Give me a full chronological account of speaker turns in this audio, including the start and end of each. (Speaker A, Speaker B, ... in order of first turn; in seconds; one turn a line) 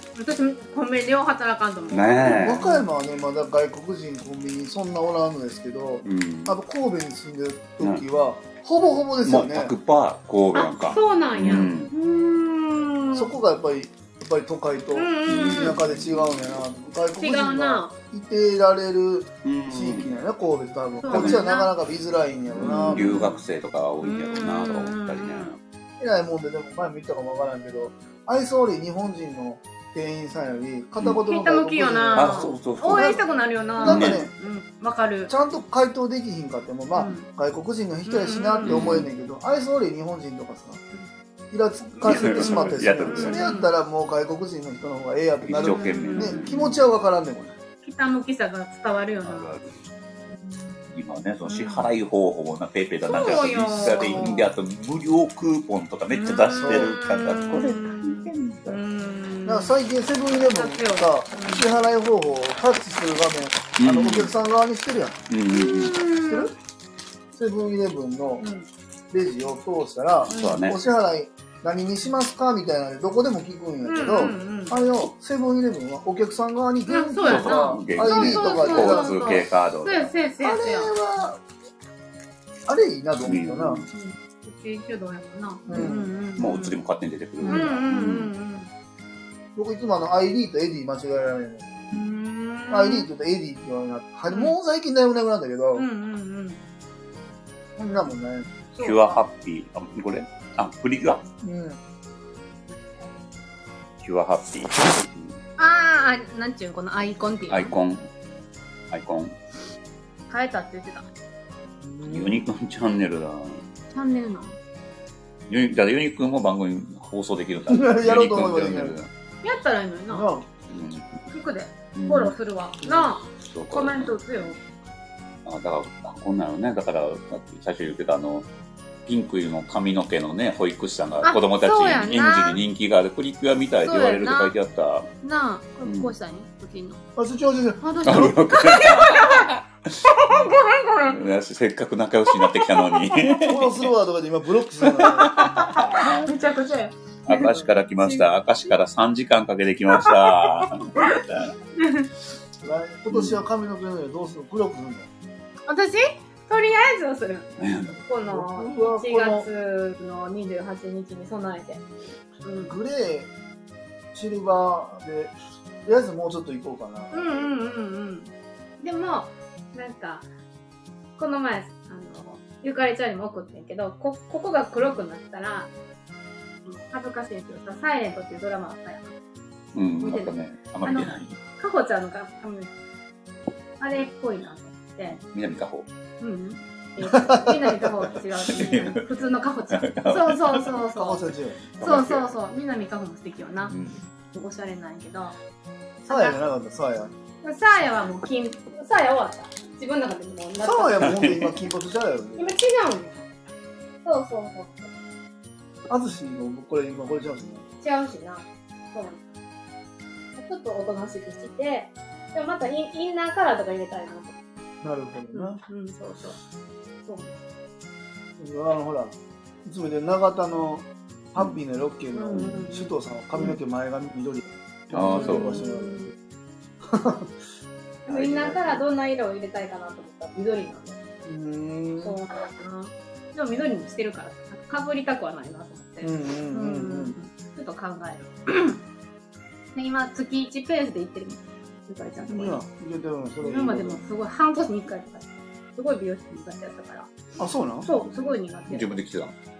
Speaker A: 0.1-2.8
Speaker B: 1.9-2.6
Speaker C: 2.2-9.7
Speaker B: 6.0-6.6
Speaker B: 9.2-11.9
Speaker A: 10.5-13.3
Speaker C: 13.1-23.2
Speaker A: 14.9-15.8
Speaker B: 15.2-16.4
Speaker A: 17.2-17.9
Speaker B: 19.4-20.2
Speaker A: 21.0-21.7
Speaker B: 21.1-21.4
Speaker B: 22.5-25.6
Speaker A: 22.6-23.4
Speaker A: 24.0-25.5
Speaker C: 26.0-33.2
Speaker A: 31.2-35.3
Speaker B: 32.1-33.2
Speaker C: 33.8-34.3
Speaker B: 33.8-34.2
Speaker C: 35.3-40.8
Speaker A: 36.9-37.3
Speaker A: 38.0-38.9
Speaker B: 38.6-39.1
Speaker C: 41.5-47.5
Speaker A: 41.9-43.7
Speaker B: 42.0-43.4
Speaker B: 45.4-46.8
Speaker A: 45.6-46.4
Speaker A: 47.8-49.5
Speaker B: 49.2-49.7
Speaker A: 50.4-50.7
Speaker B: 50.9-58.8
Speaker A: 51.5-51.9
Speaker A: 53.0-54.5
Speaker A: 56.1-59.7
Speaker C: 56.6-57.0
Speaker C: 59.5-65.3
Speaker A: 60.5-61.6
Speaker B: 63.8-64.3
Speaker B: 65.3-66.0
Speaker A: 65.5-66.5
Speaker C: 66.2-66.5
Speaker C: 67.3-68.4
Speaker A: 68.4-68.7
Speaker C: 69.1-79.2
Speaker B: 70.3-70.8
Speaker A: 70.3-70.6
Speaker A: 73.8-74.8
Speaker A: 76.9-80.9
Speaker B: 77.2-80.1
Speaker C: 80.4-81.4
Speaker C: 82.7-83.8
Speaker B: 83.2-83.9
Speaker A: 83.9-86.8
Speaker C: 85.7-86.1
Speaker B: 85.7-88.3
Speaker C: 87.4-87.8
Speaker A: 87.5-88.7
Speaker C: 89.5-91.7
Speaker A: 91.9-93.1
Speaker C: 92.7-95.8
Speaker A: 94.3-94.5
Speaker A: 95.7-96.6
Speaker C: 97.8-98.5
Speaker A: 98.7-99.2
Speaker B: 98.8-101.2
Speaker C: 101.4-101.8
Speaker B: 104.0-105.4
Speaker A: 105.6-107.8
Speaker B: 107.5-108.1
Speaker B: 108.9-109.4
Speaker A: 110.3-111.1
Speaker C: 111.8-112.5
Speaker B: 112.0-113.7
Speaker A: 113.9-114.5
Speaker B: 115.5-119.1
Speaker C: 117.7-119.0
Speaker A: 119.4-120.3
Speaker C: 120.1-120.5
Speaker B: 120.7-121.2
Speaker A: 121.3-124.6
Speaker B: 121.9-122.3
Speaker B: 123.4-124.2
Speaker B: 125.4-128.5
Speaker B: 129.1-135.1
Speaker A: 131.2-132.6
Speaker A: 133.8-134.5
Speaker A: 135.2-137.0
Speaker B: 135.8-136.1
Speaker C: 137.2-138.3
Speaker A: 137.8-141.2
Speaker B: 138.0-140.5
Speaker B: 141.1-143.9
Speaker A: 142.3-143.3
Speaker C: 143.4-145.6
Speaker A: 145.0-148.3
Speaker B: 145.0-146.2
Speaker B: 147.2-151.5
Speaker A: 149.9-151.2
Speaker A: 151.8-152.1
Speaker C: 152.6-155.1
Speaker B: 153.1-153.4
Speaker A: 155.7-161.8
Speaker B: 157.6-158.0
Speaker C: 158.2-159.5
Speaker A: 162.4-162.7
Speaker C: 162.6-163.3
Speaker C: 164.1-167.1
Speaker A: 167.1-170.3
Speaker A: 171.2-175.7
Speaker A: 176.6-179.1
Speaker B: 179.7-181.4
Speaker A: 180.0-182.7
Speaker A: 183.8-185.2
Speaker B: 185.1-185.8
Speaker A: 186.2-191.3
Speaker C: 187.0-188.1
Speaker B: 188.5-189.1
Speaker B: 189.7-190.8
Speaker C: 190.9-191.6
Speaker B: 191.8-192.3
Speaker A: 191.8-193.7
Speaker B: 193.7-194.0
Speaker A: 194.3-195.3
Speaker A: 196.0-196.4
Speaker C: 196.1-197.1
Speaker A: 197.4-201.3
Speaker C: 200.6-202.5
Speaker B: 201.0-201.6
Speaker A: 202.4-203.2
Speaker A: 204.0-204.9
Speaker C: 205.9-207.6
Speaker A: 207.8-209.2
Speaker A: 210.4-214.3
Speaker C: 214.8-215.6
Speaker A: 215.3-216.4
Speaker A: 217.0-217.3
Speaker C: 218.4-226.0
Speaker A: 222.1-223.0
Speaker B: 224.9-225.6
Speaker A: 225.1-226.1
Speaker C: 226.8-227.3
Speaker A: 228.1-231.0
Speaker B: 228.1-228.8
Speaker C: 231.2-232.2
Speaker A: 232.0-238.8
Speaker C: 236.0-237.1
Speaker A: 239.7-242.6
Speaker C: 242.3-244.0
Speaker A: 243.4-247.1
Speaker C: 247.4-247.9
Speaker A: 247.8-248.9
Speaker B: 248.0-249.3